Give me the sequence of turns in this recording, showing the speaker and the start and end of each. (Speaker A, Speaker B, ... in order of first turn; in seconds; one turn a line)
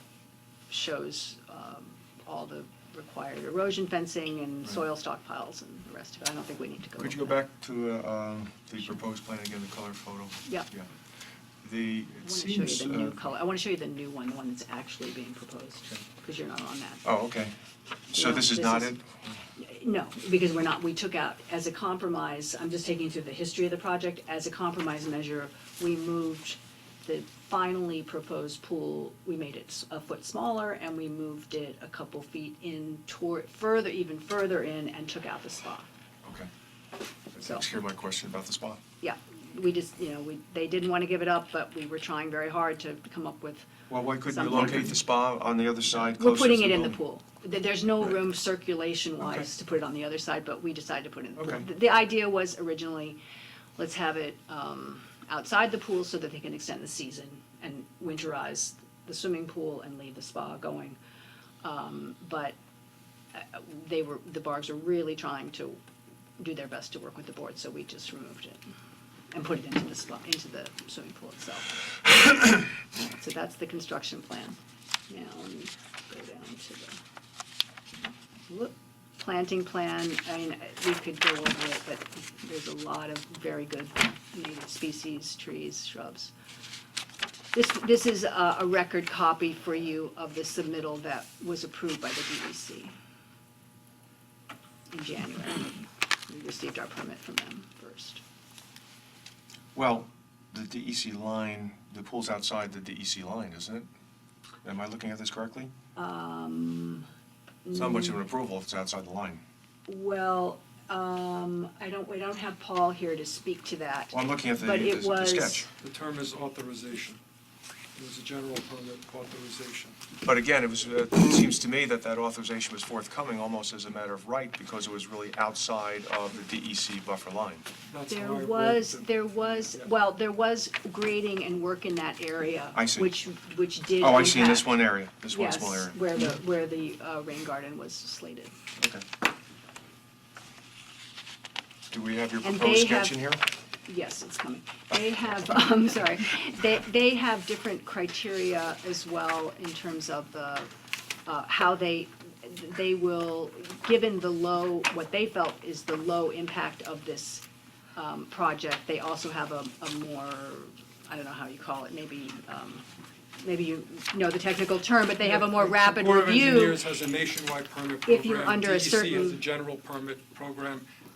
Speaker A: 0.7-7.4
Speaker B: 7.0-10.9
Speaker B: 11.6-13.2
Speaker A: 12.2-17.0
Speaker B: 17.0-17.5
Speaker B: 18.1-19.1
Speaker A: 18.1-18.9
Speaker A: 19.6-35.9
Speaker B: 37.3-38.8
Speaker A: 39.0-43.7
Speaker B: 43.9-47.0
Speaker A: 44.2-45.0
Speaker A: 46.2-53.2
Speaker B: 49.2-49.5
Speaker B: 51.4-51.7
Speaker A: 53.8-61.0
Speaker A: 61.6-62.6
Speaker A: 63.3-65.8
Speaker A: 66.4-68.6
Speaker A: 69.3-74.6
Speaker A: 75.1-77.0
Speaker A: 78.5-86.3
Speaker A: 87.5-92.9
Speaker A: 94.9-98.2
Speaker B: 99.8-103.9
Speaker B: 104.6-105.7
Speaker A: 106.0-107.1
Speaker A: 107.7-108.2
Speaker B: 107.7-109.4
Speaker A: 109.9-115.7
Speaker B: 114.1-115.7
Speaker C: 115.8-117.2
Speaker C: 118.0-120.0
Speaker B: 120.2-127.7
Speaker C: 127.9-129.0
Speaker A: 128.1-138.6
Speaker B: 132.8-133.1
Speaker B: 134.0-136.3
Speaker B: 138.8-139.0
Speaker B: 141.9-143.4
Speaker A: 142.4-143.2
Speaker A: 143.8-150.7
Speaker A: 151.3-157.4
Speaker A: 158.0-162.8
Speaker A: 163.4-166.8
Speaker C: 165.2-170.8
Speaker A: 168.1-169.4